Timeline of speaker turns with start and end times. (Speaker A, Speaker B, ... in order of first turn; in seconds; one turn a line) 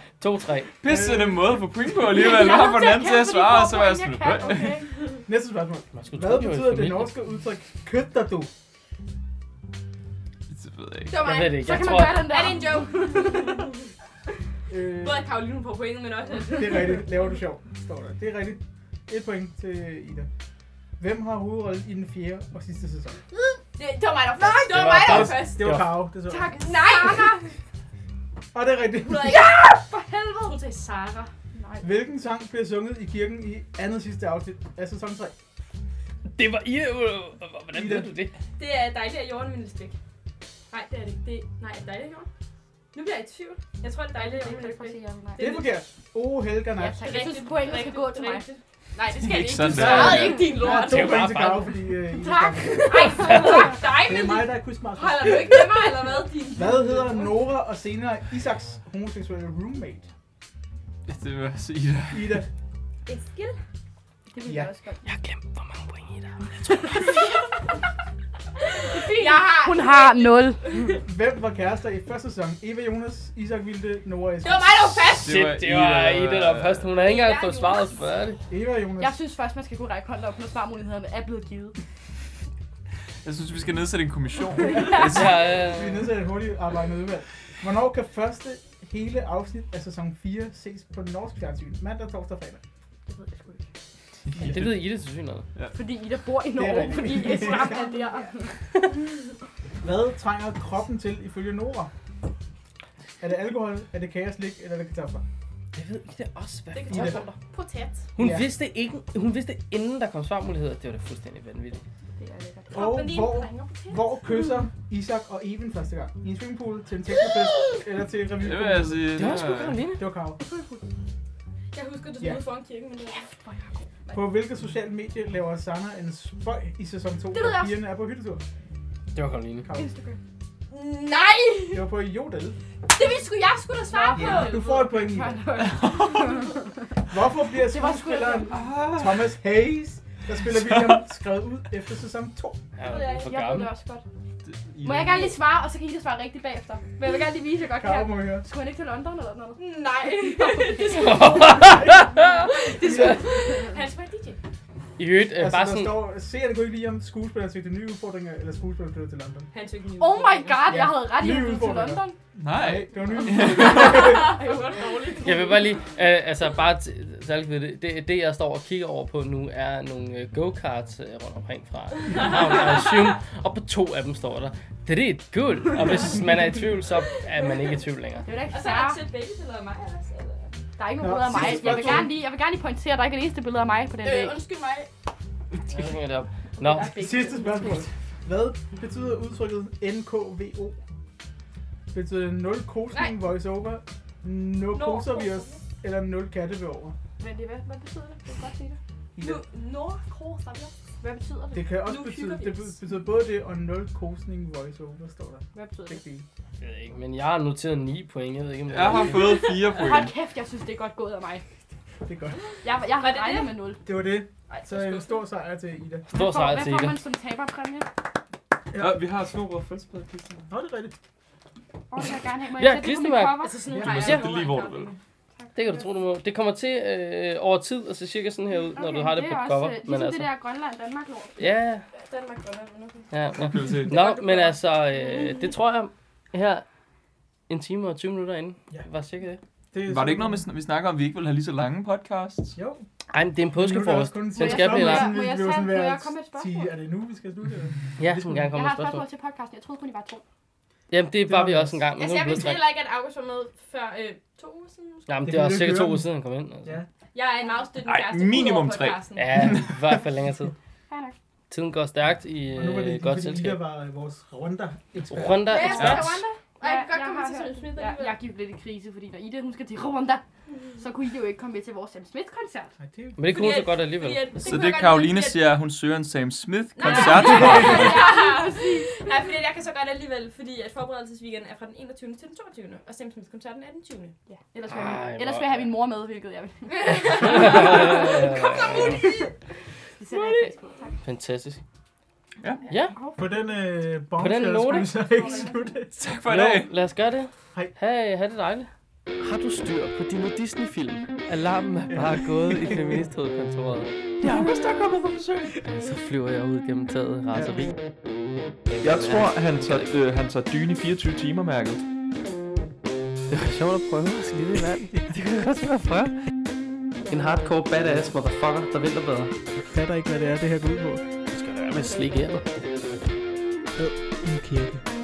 Speaker A: 0.2-0.7
Speaker B: 0.8-4.8
Speaker C: 0.8-1.6
Speaker D: 2.0-4.9
Speaker C: 5.2-8.5
Speaker A: 5.9-7.1
Speaker B: 10.5-11.2
Speaker E: 11.1-13.8
Speaker A: 11.2-12.6
Speaker D: 11.3-13.7
Speaker C: 14.7-15.3
Speaker E: 15.0-17.2
Speaker C: 16.5-20.3
Speaker C: 21.0-23.2
Speaker E: 23.4-25.8
Speaker A: 24.5-26.1
Speaker C: 25.0-26.5
Speaker D: 26.3-27.5
Speaker E: 26.5-27.5
Speaker C: 28.5-29.5
Speaker E: 29.0-31.3
Speaker D: 29.3-30.6
Speaker D: 31.5-31.9
Speaker C: 31.8-35.3
Speaker A: 36.3-38.3
Speaker C: 37.7-38.2
Speaker E: 38.6-40.0
Speaker E: 40.7-42.3
Speaker E: 42.9-45.7
Speaker D: 44.1-45.7
Speaker C: 45.4-47.3
Speaker D: 46.8-48.5
Speaker E: 47.0-51.3
Speaker B: 49.2-50.4
Speaker C: 49.6-60.1
Speaker A: 49.8-51.8
Speaker E: 52.2-57.4
Speaker D: 52.4-54.0
Speaker A: 53.1-53.7
Speaker B: 61.1-62.4
Speaker C: 62.1-62.5
Speaker E: 63.0-63.6
Speaker D: 64.3-65.0
Speaker C: 64.4-64.7
Speaker A: 65.0-67.2
Speaker D: 66.7-67.4
Speaker E: 68.7-71.0
Speaker D: 68.8-71.0
Speaker C: 71.0-74.9
Speaker E: 74.4-75.3
Speaker B: 75.0-76.9
Speaker A: 75.1-78.4
Speaker E: 77.0-78.0
Speaker C: 78.5-79.2
Speaker D: 79.0-81.8
Speaker B: 83.2-85.5
Speaker C: 84.8-92.6
Speaker A: 84.9-86.2
Speaker D: 93.1-93.6
Speaker B: 94.3-94.8
Speaker C: 94.3-94.6
Speaker A: 94.4-95.5
Speaker D: 95.7-98.7
Speaker C: 96.5-97.9
Speaker C: 99.8-101.9
Speaker C: 103.2-105.2
Speaker A: 105.7-107.3
Speaker E: 106.7-108.1
Speaker C: 106.9-107.2
Speaker A: 108.2-111.8
Speaker C: 108.2-108.5
Speaker D: 112.2-112.8
Speaker E: 112.2-114.2
Speaker C: 112.7-120.4
Speaker B: 118.4-119.8
Speaker A: 119.1-120.0
Speaker D: 120.4-120.8
Speaker E: 121.7-123.3
Speaker D: 123.0-124.2
Speaker C: 124.1-128.4
Speaker D: 127.3-127.7
Speaker A: 129.1-129.7
Speaker C: 129.6-129.9
Speaker E: 129.7-130.2
Speaker E: 130.7-131.8
Speaker C: 131.7-132.6
Speaker E: 132.9-134.9
Speaker D: 133.7-136.7
Speaker C: 134.1-135.4
Speaker B: 135.7-136.3
Speaker C: 137.1-142.6
Speaker D: 137.6-138.7
Speaker B: 138.5-139.3
Speaker A: 142.8-143.7
Speaker E: 142.8-143.6
Speaker D: 143.2-144.0
Speaker B: 144.5-145.3
Speaker D: 144.8-151.3
Speaker C: 147.8-148.4
Speaker E: 149.6-154.4
Speaker A: 150.9-153.2
Speaker C: 151.5-152.1
Speaker C: 152.8-153.2
Speaker A: 155.0-156.0
Speaker C: 155.3-159.5
Speaker E: 159.5-160.8
Speaker D: 160.0-162.2
Speaker C: 160.7-164.4
Speaker B: 162.4-164.0
Speaker E: 163.3-165.8
Speaker A: 165.2-178.3
Speaker E: 172.1-173.0
Speaker E: 177.3-177.8
Speaker D: 178.2-179.0
Speaker E: 178.5-180.7
Speaker D: 180.8-184.4
Speaker C: 181.0-182.1
Speaker E: 181.3-182.0
Speaker E: 184.0-184.9
Speaker A: 185.7-186.9
Speaker E: 186.6-187.5
Speaker D: 186.6-187.8
Speaker C: 186.9-190.8
Speaker C: 191.9-196.9
Speaker E: 192.9-193.2
Speaker E: 194.7-195.6
Speaker D: 197.2-198.8
Speaker C: 199.2-199.4
Speaker E: 199.2-200.7
Speaker D: 201.0-202.0
Speaker C: 201.5-206.2
Speaker E: 201.9-202.7
Speaker D: 205.5-206.0
Speaker A: 206.6-209.4
Speaker B: 208.7-210.1
Speaker E: 208.9-209.8
Speaker D: 209.7-211.4
Speaker C: 212.0-212.4
Speaker D: 212.6-213.8
Speaker E: 213.0-213.6
Speaker C: 213.8-216.1
Speaker E: 214.5-215.2
Speaker D: 216.1-217.9
Speaker A: 216.1-217.0
Speaker C: 218.7-219.0
Speaker B: 218.8-220.5
Speaker C: 220.5-220.9
Speaker D: 221.9-223.7
Speaker A: 222.6-224.2
Speaker E: 223.4-225.0
Speaker C: 223.7-224.3
Speaker B: 223.8-224.9
Speaker D: 225.4-225.8
Speaker A: 225.5-230.3
Speaker D: 228.7-231.5
Speaker A: 231.4-231.8
Speaker E: 231.9-233.2
Speaker A: 233.1-236.6
Speaker B: 233.4-234.0
Speaker E: 233.9-234.6
Speaker D: 235.0-235.5
Speaker A: 237.5-239.4
Speaker C: 239.7-240.4
Speaker B: 239.8-242.6
Speaker C: 242.5-242.8
Speaker A: 243.1-245.2
Speaker C: 243.5-248.5
Speaker D: 244.3-246.7
Speaker A: 248.0-249.0
Speaker D: 248.5-250.2
Speaker A: 250.9-252.7
Speaker C: 251.2-251.8
Speaker E: 251.9-255.1
Speaker A: 255.1-256.8
Speaker C: 255.2-256.1
Speaker E: 257.1-259.4
Speaker B: 257.8-259.8
Speaker A: 259.1-260.5
Speaker D: 260.9-261.1
Speaker A: 261.5-263.6
Speaker C: 262.5-265.6
Speaker A: 265.1-266.1
Speaker E: 265.4-268.2
Speaker D: 265.5-270.2
Speaker D: 270.8-272.7
Speaker C: 272.8-273.2
Speaker A: 273.2-274.4
Speaker E: 273.2-275.6
Speaker B: 274.4-278.0
Speaker E: 276.7-284.1
Speaker D: 276.9-279.0
Speaker C: 277.2-277.8
Speaker D: 284.3-289.0
Speaker A: 284.7-285.6
Speaker E: 286.7-289.3
Speaker A: 287.2-289.0
Speaker D: 290.0-291.0
Speaker E: 290.0-290.6
Speaker A: 291.0-291.6
Speaker A: 292.7-293.0
Speaker D: 292.7-293.4
Speaker C: 293.1-295.9
Speaker A: 294.1-295.0
Speaker D: 295.1-295.5
Speaker E: 295.1-295.5
Speaker B: 295.9-296.7
Speaker A: 296.2-298.7
Speaker A: 299.2-303.9
Speaker C: 301.9-302.9
Speaker B: 304.2-305.5
Speaker A: 305.7-307.7
Speaker A: 308.7-309.8
Speaker B: 308.8-311.8
Speaker A: 313.3-316.1
Speaker A: 317.1-319.3
Speaker C: 319.6-321.0
Speaker A: 321.3-322.5
Speaker C: 323.8-324.8